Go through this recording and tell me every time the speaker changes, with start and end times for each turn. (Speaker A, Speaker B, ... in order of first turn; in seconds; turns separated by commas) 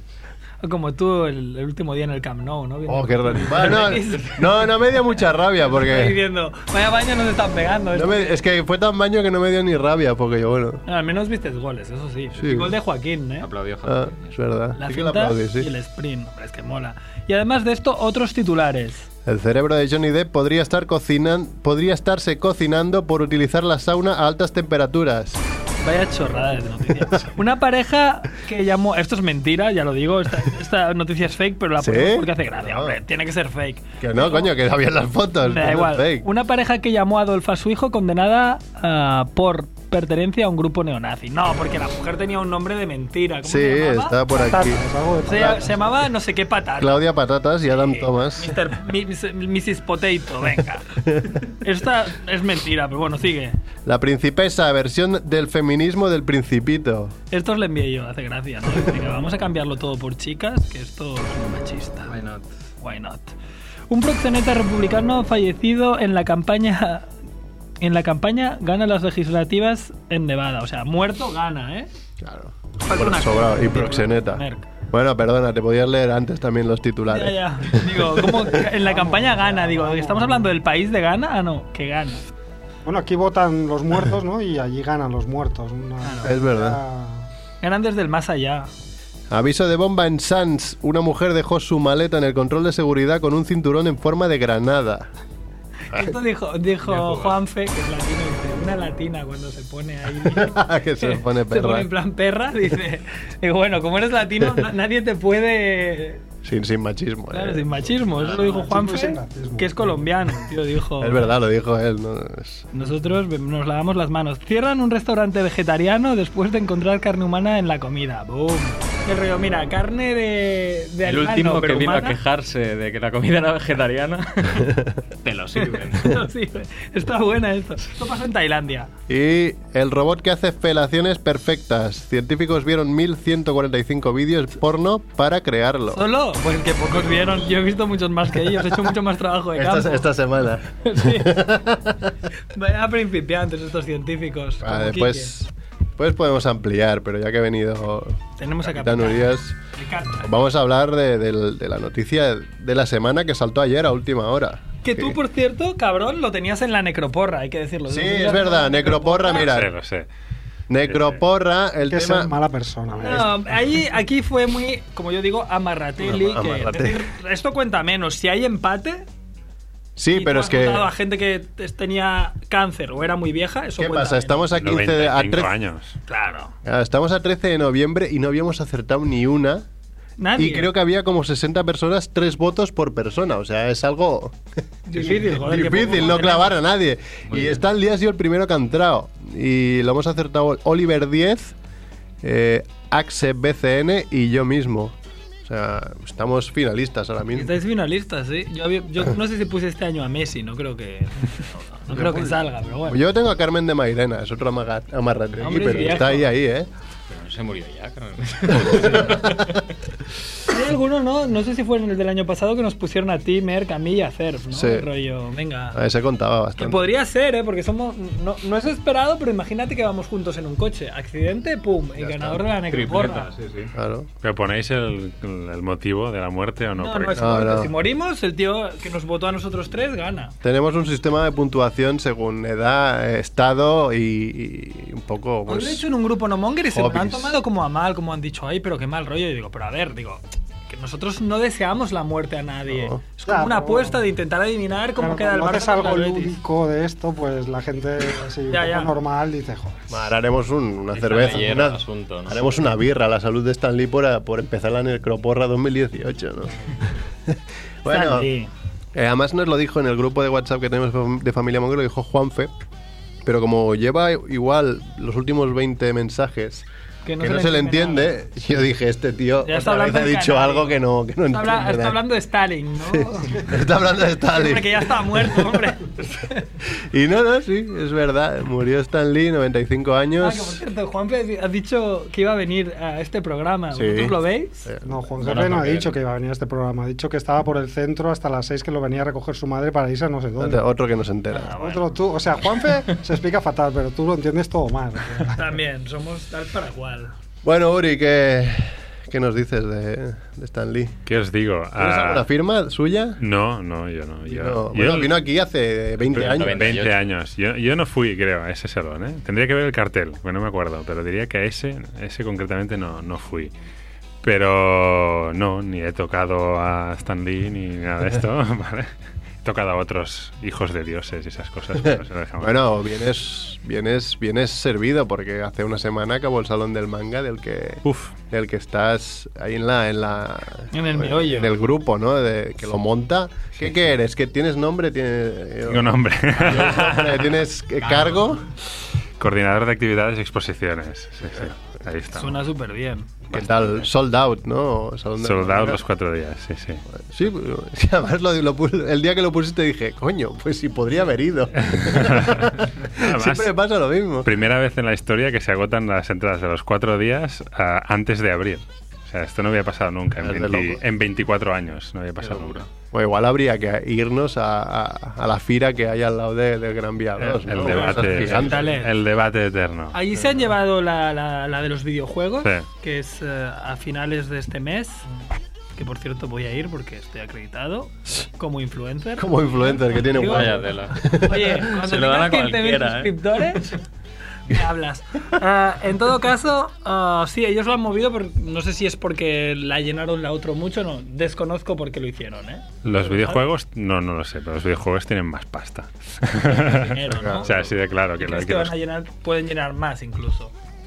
Speaker A: 0.6-4.7, Speaker B: 2.9-6.2, Speaker A: 5.7-8.3, Speaker B: 7.9-10.8, Speaker A: 10.8-13.5, Speaker B: 12.4-12.7, Speaker C: 13.4-14.3, Speaker B: 13.8-15.7, Speaker A: 14.8-19.1, Speaker B: 19.2-25.4, Speaker A: 25.8-34.5, Speaker B: 27.0-27.3, Speaker B: 31.8-33.0, Speaker B: 34.0-36.3, Speaker A: 35.4-47.0, Speaker B: 43.4-45.6, Speaker D: 44.5-45.8, Speaker B: 46.8-48.6, Speaker A: 47.7-53.6, Speaker B: 53.9-57.1, Speaker A: 57.3-62.1, Speaker C: 62.0-62.5, Speaker A: 62.8-63.3, Speaker A: 63.9-67.1, Speaker A: 67.8-71.9, Speaker B: 72.2-78.6, Speaker A: 72.8-74.7, Speaker A: 77.1-82.2, Speaker D: 78.8-80.5, Speaker D: 82.8-87.3, Speaker A: 86.0-86.3, Speaker B: 86.2-86.8, Speaker A: 87.6-88.7, Speaker B: 89.3-95.1, Speaker A: 95.9-106.2, Speaker B: 100.2-101.9, Speaker B: 106.4-107.9, Speaker A: 107.3-111.3, Speaker D: 108.2-110.0, Speaker B: 111.0-112.7, Speaker A: 112.7-122.2, Speaker C: 121.0-126.3, Speaker A: 125.7-128.9, Speaker B: 129.1-136.0, Speaker A: 135.9-140.1, Speaker B: 139.5-142.1, Speaker A: 140.8-141.5, Speaker A: 142.5-145.3, Speaker B: 144.6-149.6, Speaker A: 148.4-150.3, Speaker B: 150.2-155.2, Speaker A: 154.8-159.5, Speaker B: 157.9-159.7, Speaker E: 159.4-160.1, Speaker B: 160.7-162.3, Speaker E: 160.8-161.2, Speaker D: 161.9-163.3, Speaker A: 163.0-169.1, Speaker B: 166.0-167.1, Speaker B: 170.0-170.9, Speaker A: 170.1-174.5, Speaker B: 173.8-175.5, Speaker E: 174.6-176.0, Speaker A: 176.1-176.5, Speaker B: 176.6-179.7, Speaker A: 180.2-180.7, Speaker B: 180.3-184.4, Speaker A: 184.9-186.6, Speaker B: 184.9-191.5, Speaker C: 187.3-187.6, Speaker B: 192.2-197.5, Speaker A: 197.3-203.0, Speaker B: 201.9-206.7, Speaker A: 205.4-206.3, Speaker C: 207.1-209.6, Speaker B: 208.7-209.6, Speaker A: 210.5-215.8, Speaker B: 214.5-214.9, Speaker B: 215.7-216.8, Speaker A: 216.6-223.3, Speaker B: 222.0-222.4, Speaker C: 222.7-223.7, Speaker B: 223.7-224.1, Speaker E: 224.2-227.5, Speaker A: 226.8-230.3, Speaker B: 227.2-227.7, Speaker B: 230.4-235.8, Speaker A: 235.5-246.4, Speaker B: 236.7-237.3, Speaker B: 242.7-243.0, Speaker D: 243.2-244.0, Speaker D: 245.0-249.9, Speaker A: 248.5-248.9, Speaker B: 249.9-258.3, Speaker C: 250.9-252.4, Speaker A: 257.9-258.5, Speaker B: 258.9-262.5, Speaker B: 263.2-266.6, Speaker A: 267.1-268.2, Speaker B: 267.2-272.0, Speaker A: 269.4-273.5, Speaker B: 272.9-275.7, Speaker A: 274.2-276.4, Speaker B: 276.6-280.6, Speaker A: 280.2-284.6, Speaker B: 283.7-284.9, Speaker D: 284.8-290.6, Speaker C: 285.2-285.9, Speaker B: 290.4-291.6, Speaker A: 291.3-291.9, Speaker D: 291.5-295.4, Speaker A: 295.2-297.1, Speaker B: 297.4-300.9, Speaker E: 301.1-302.3, Speaker B: 301.8-303.2, Speaker E: 303.2-305.2, Speaker B: 304.2-306.8, Speaker C: 306.1-307.0, Speaker E: 306.1-313.5, Speaker E: 314.2-318.9, Speaker E: 319.4-322.6, Speaker B: 321.8-338.4, Speaker E: 327.8-328.1, Speaker A: 330.7-331.6, Speaker E: 335.7-337.3, Speaker C: 337.8-338.3, Speaker E: 339.2-342.4, Speaker A: 342.1-343.1, Speaker B: 343.3-345.8, Speaker E: 345.2-346.8, Speaker B: 346.9-354.3, Speaker E: 351.6-353.5, Speaker E: 354.2-362.6, Speaker B: 360.2-360.8, Speaker C: 362.2-362.7, Speaker B: 362.9-368.7, Speaker E: 367.2-369.9, Speaker C: 367.6-368.6, Speaker A: 368.4-368.9, Speaker A: 369.9-375.0, Speaker A: 375.8-383.8, Speaker B: 379.2-381.7, Speaker C: 380.2-383.6, Speaker A: 384.5-393.4, Speaker E: 392.8-398.7, Speaker A: 396.4-397.5, Speaker B: 397.2-397.4, Speaker A: 398.2-400.5